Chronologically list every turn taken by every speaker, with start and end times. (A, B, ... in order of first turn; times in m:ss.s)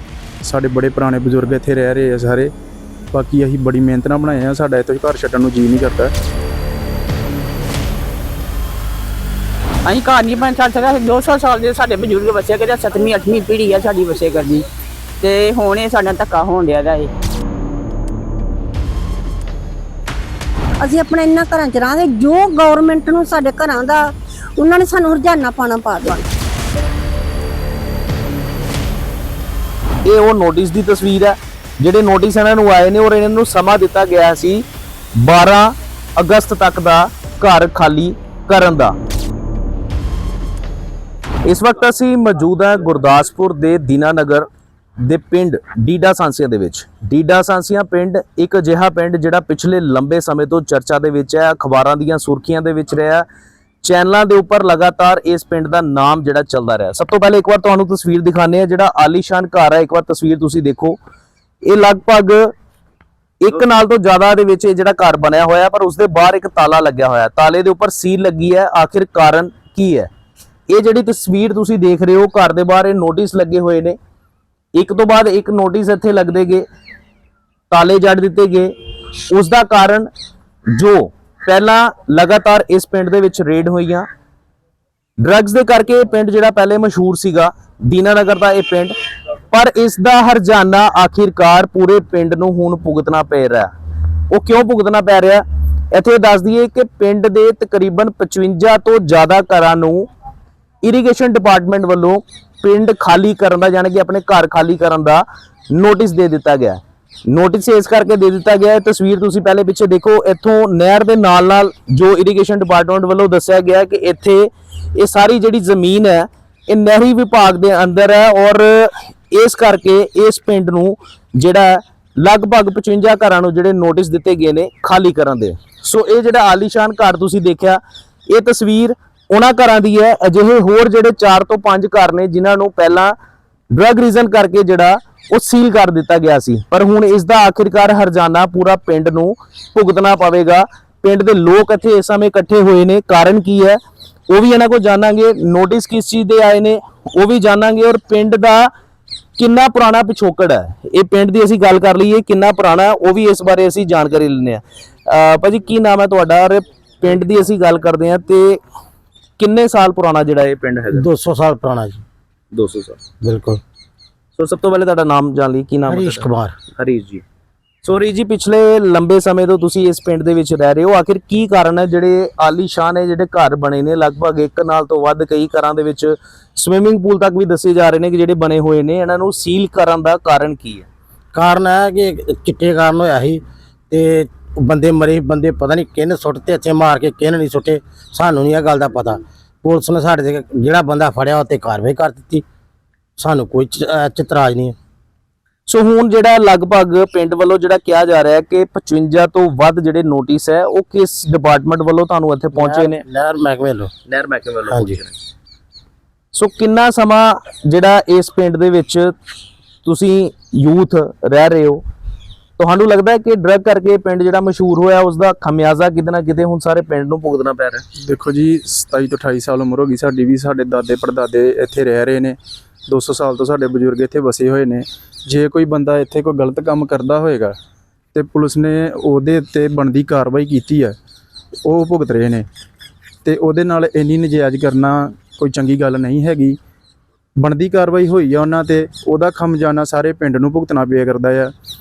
0:00.4-0:02.5 A
0:03.1-0:06.1 A
0:09.8-0:14.7 B
0:15.2-0:17.1 B
0:20.8-0:26.3 C
0:30.0-0:34.6 D
0:35.2-0:39.0 D
0:41.4-0:44.5 D
0:45.0-0:53.2 D
0:53.8-1:01.0 D
1:01.6-1:02.5 D
1:03.4-1:10.1 D
1:10.7-1:14.0 D
1:14.7-1:16.6 D
1:17.7-1:18.7 D
1:19.3-1:20.1 D
1:20.7-1:24.1 D
1:25.2-1:28.9 D
1:29.5-1:33.7 D
1:34.3-1:40.1 D
1:40.8-2:13.1 D
2:13.7-2:28.7 D
2:29.4-2:38.6 D
2:39.4-2:41.0 D
2:40.9-2:42.0 E
2:42.5-2:43.0 D
2:43.2-2:43.6 E
2:44.4-2:47.2 D
2:45.9-2:46.5 E
2:47.8-3:00.9 D
3:01.3-3:12.4 E
3:13.2-3:14.7 E
3:15.7-3:23.0 D
3:22.5-3:23.9 E
3:24.1-3:25.1 D
3:24.7-3:25.0 E
3:26.3-3:29.1 D
3:29.8-3:31.8 D
3:32.6-3:37.8 D
3:38.0-3:42.4 A
3:42.9-3:47.6 A
3:48.1-3:50.9 A
3:51.6-3:52.4 A
3:53.2-3:56.6 A
3:57.4-4:01.5 A